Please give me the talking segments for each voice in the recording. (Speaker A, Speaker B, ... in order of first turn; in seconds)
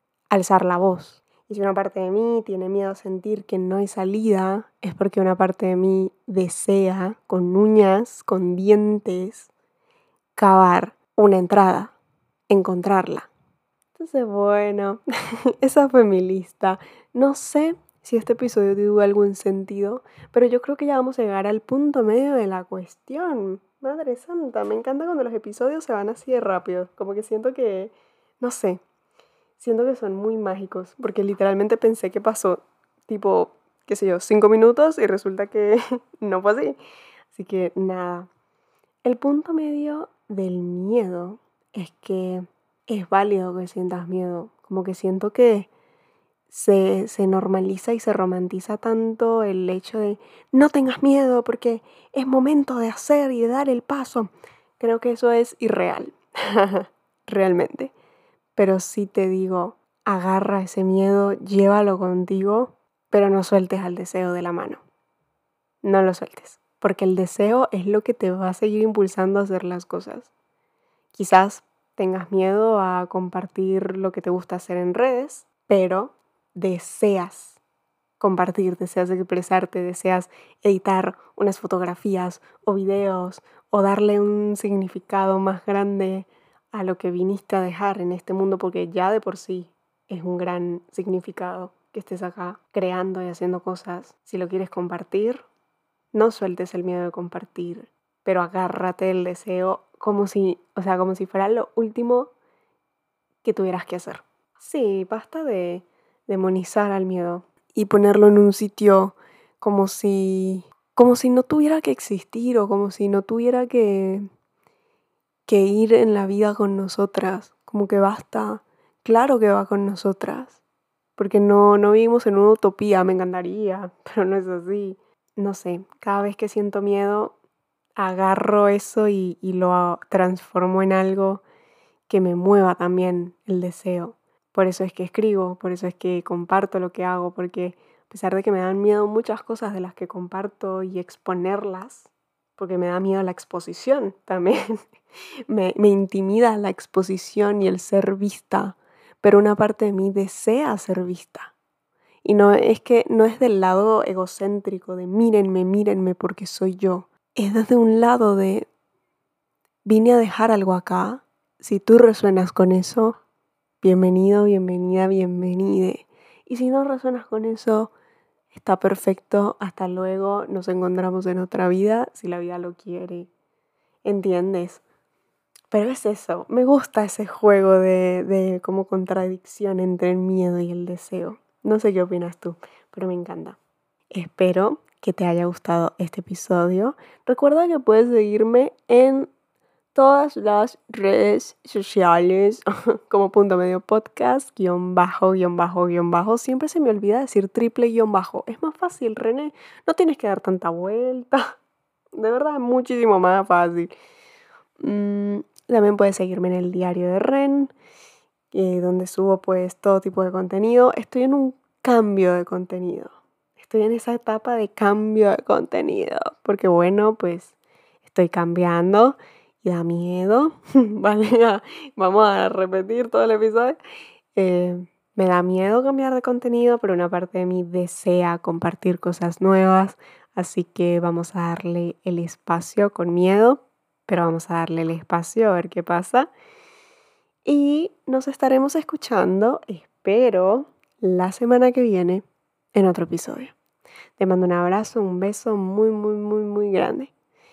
Speaker A: 0.3-9.5, 10.3-11.9, 12.5-13.3, 13.9-15.0, 15.6-28.8, 29.6-36.8, 37.3-38.3, 39.0-45.7, 46.5-57.9, 58.5-64.8, 65.8-70.3, 71.1-77.6, 78.2-95.4, 96.1-102.3, 103.4-114.2, 115.5-120.6, 121.2-127.3, 128.0-131.4, 132.1-144.6, 145.5-151.5, 152.2-158.7, 159.8-163.2, 163.8-167.9, 168.5-173.3, 174.0-174.8, 175.7-183.6, 184.1-189.3, 189.9-201.4, 202.1-203.9, 204.8-207.7, 208.5-223.8, 224.3-236.3, 237.4-242.2, 242.7-243.5, 244.2-247.1